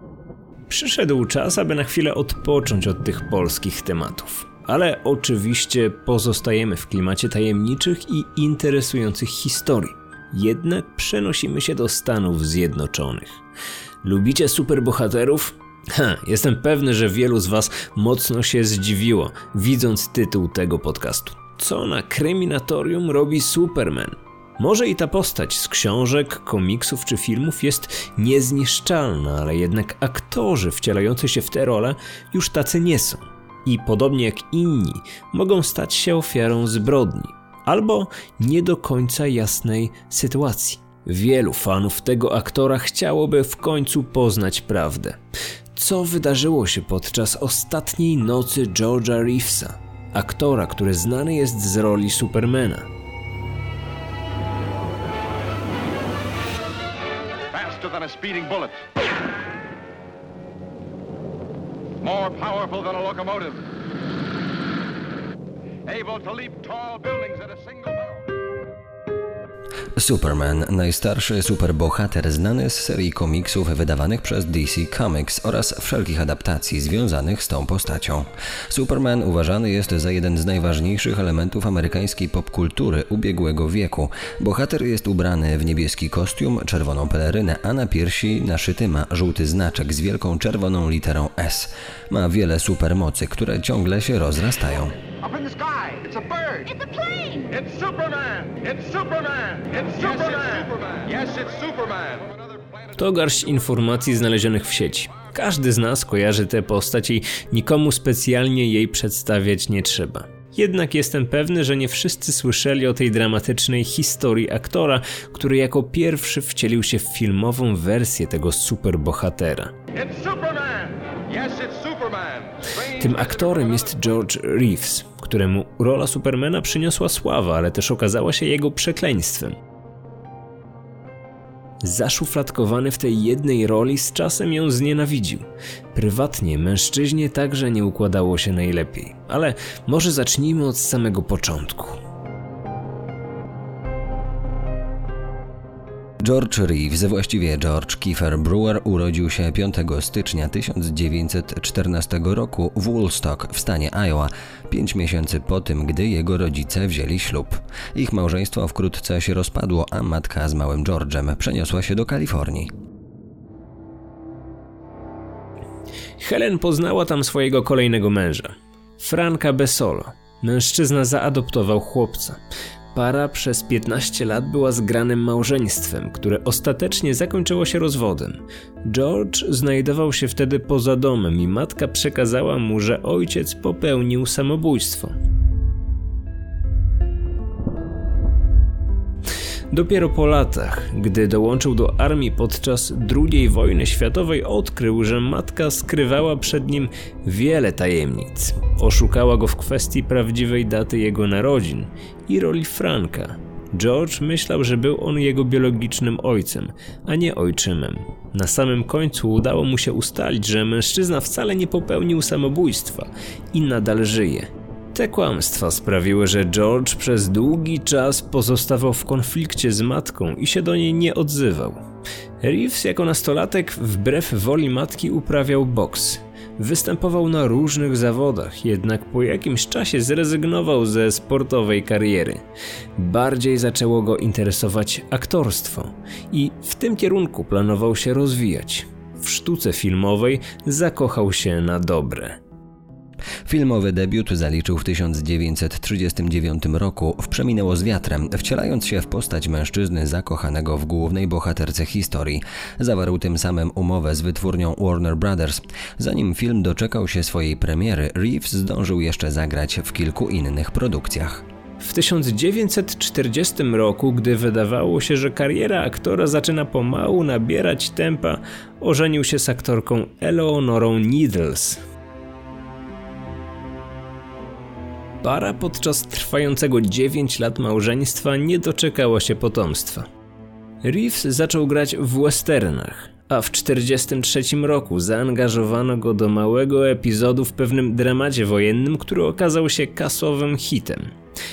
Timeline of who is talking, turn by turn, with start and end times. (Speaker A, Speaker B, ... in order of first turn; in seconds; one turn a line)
Speaker A: 0.7-13.4
Speaker A: 14.0-45.2
Speaker A: 45.7-52.9
Speaker B: 57.5-58.9
Speaker B: 62.0-63.6
Speaker B: 65.8-68.3
Speaker C: 70.0-95.0
Speaker B: 95.2-102.7
Speaker A: 102.9-119.7
Speaker B: 119.9-123.5
Speaker A: 122.8-129.6
Speaker A: 131.8-142.0
Speaker C: 146.2-162.7
Speaker A: 166.2-172.4
Speaker A: 172.9-185.1
Speaker A: 189.7-221.8
Speaker A: 222.4-232.4
Speaker A: 233.0-242.4
Speaker C: 243.4-261.4
Speaker A: 261.8-271.8
Speaker A: 275.2-280.1
Speaker A: 280.8-291.1